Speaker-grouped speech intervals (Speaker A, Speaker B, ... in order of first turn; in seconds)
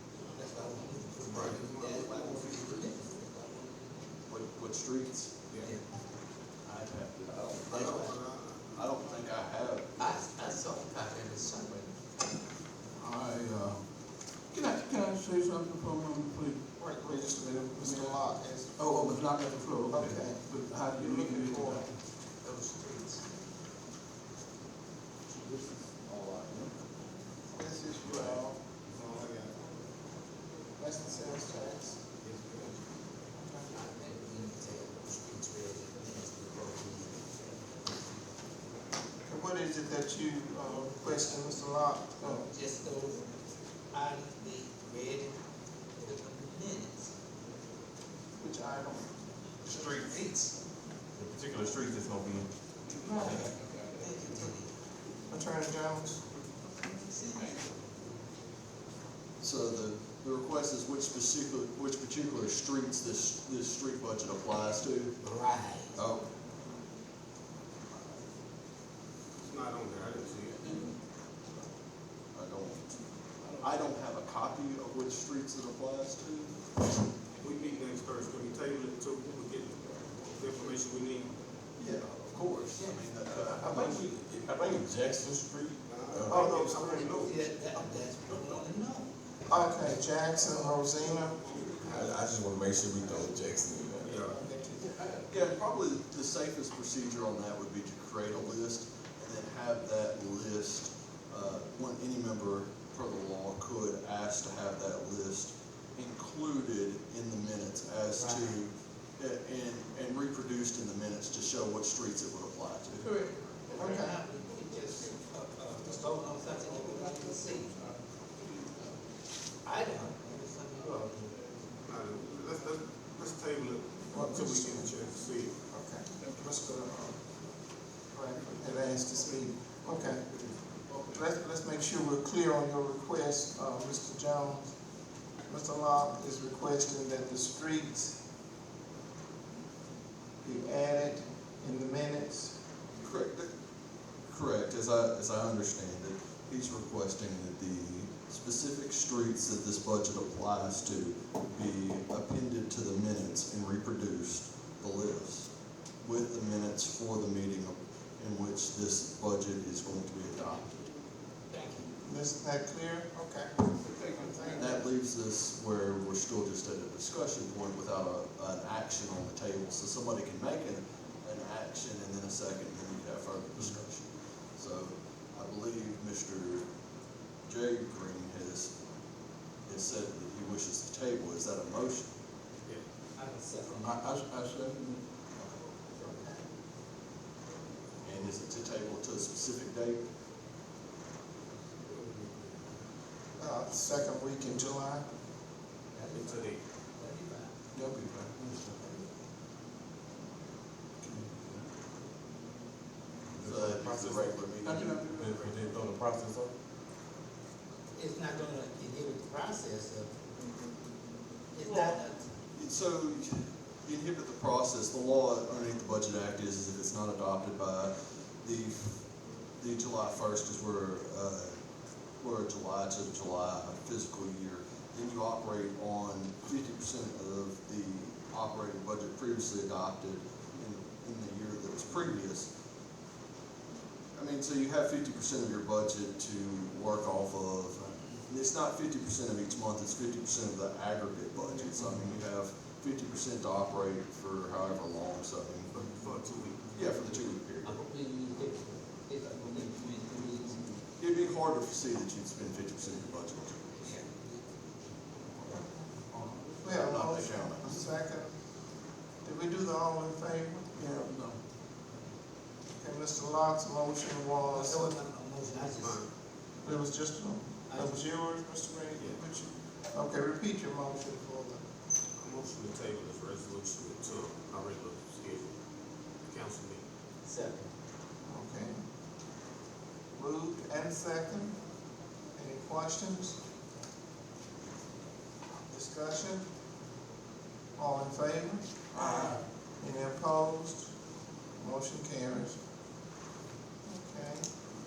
Speaker A: 0.2-4.1, 5.6-5.8, 7.7-8.1, 10.0-11.9, 22.4-23.3, 33.7-37.3, 42.2-43.2, 43.9-45.3, 46.0-47.1, 49.7-50.5, 52.9-54.7, 56.8-57.6, 65.2-66.0, 86.9-89.1, 108.1-108.6, 113.0-117.9, 119.6-121.3, 161.5-161.9, 183.2-184.1, 185.9-186.4, 191.9-192.3, 195.9-197.5, 207.9-210.1, 211.5-212.2, 247.6-250.6, 253.8-254.4, 264.5-266.0, 267.7-268.0, 277.2-277.7
Speaker B: 1.3-2.4, 7.7-8.7, 20.9-21.9, 32.3-32.5, 69.4-70.8, 77.4-81.3, 85.8-87.4, 90.5-92.2, 94.0-94.4, 121.8-125.5, 196.1-196.6, 203.7-204.3, 245.7-247.0, 265.8-266.1, 272.2-275.5, 276.3-276.8
Speaker C: 1.7-2.4, 4.3-5.3, 6.7-8.1, 8.7-10.1, 59.4-65.1, 65.9-66.2, 72.3-72.9, 73.6-76.5, 81.8-84.1, 95.0-113.0, 143.0-143.5, 144.3-155.5, 156.0-160.7, 164.6-176.6, 177.4-178.7, 179.7-182.1, 188.0-190.0, 203.4-205.0, 212.5-217.9, 218.4-219.0, 219.6-221.5, 222.2-232.5, 234.2-245.7, 246.7-247.8, 251.0-253.8, 256.6-257.8
Speaker D: 13.0-13.8, 14.5-16.6, 17.3-21.9, 73.4-73.9, 130.9-131.2, 163.9-164.6, 183.8-185.0, 197.7-198.8, 201.0-201.7, 204.6-205.6, 241.8-242.1, 256.1-256.8, 260.8-261.4, 288.9-289.4
Speaker E: 16.8-18.8, 19.9-20.4, 27.5-29.6, 30.8-32.0, 33.4-33.7, 39.2-42.5, 48.4-49.1, 55.3-56.2, 86.3-87.0, 89.5-91.4, 94.2-95.1, 113.7-114.2, 124.1-124.9, 125.7-127.2, 128.1-130.3, 131.1-134.7, 135.5-138.2, 140.4-142.5, 162.0-163.5, 164.1-164.8, 193.4-195.0, 256.6-258.3, 259.2-261.1, 262.8-264.9, 266.6-271.6, 278.2-278.8, 280.2-281.5, 282.4-283.4, 285.7-286.4, 287.8-290.9, 291.6-292.6, 293.9-294.4
Speaker F: 25.4-26.7, 49.6-50.3, 51.2-52.5, 53.1-53.5, 83.3-86.5, 91.8-94.3, 203.3-204.3, 205.0-206.5